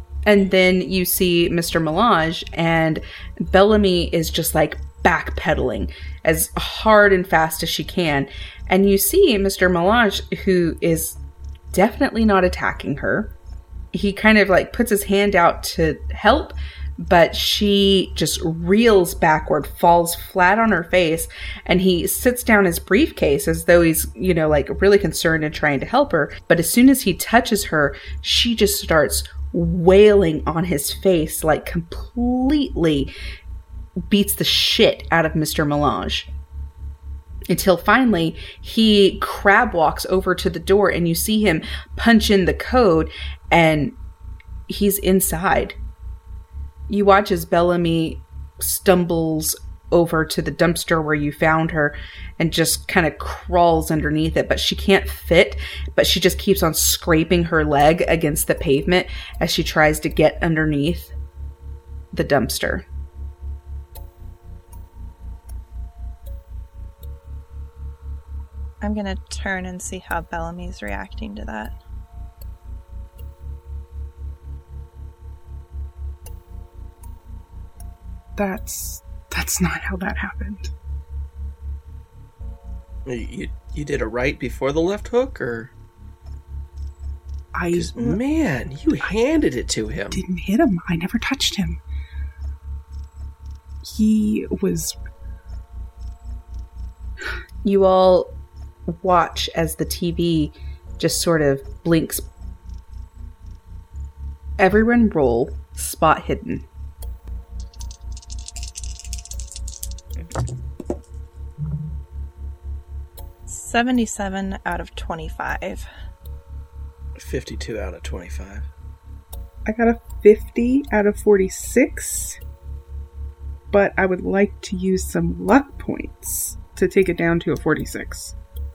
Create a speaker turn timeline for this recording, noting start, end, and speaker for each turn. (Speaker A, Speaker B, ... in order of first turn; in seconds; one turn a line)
Speaker A: 0.3-11.2
Speaker A: 11.7-13.3
Speaker A: 13.9-33.1
Speaker A: 34.1-36.3
Speaker A: 37.5-44.0
Speaker A: 44.7-45.8
Speaker A: 46.9-61.1
Speaker A: 62.1-62.9
Speaker B: 68.8-71.7
Speaker C: 78.4-80.7
Speaker D: 83.0-85.7
Speaker C: 87.5-88.2
Speaker D: 87.7-90.2
Speaker C: 90.1-91.8
Speaker C: 93.8-95.0
Speaker A: 97.6-98.4
Speaker A: 98.9-102.3
Speaker A: 104.6-106.6
Speaker B: 113.5-115.9
Speaker D: 117.2-118.7
Speaker C: 119.7-122.4
Speaker C: 123.7-128.3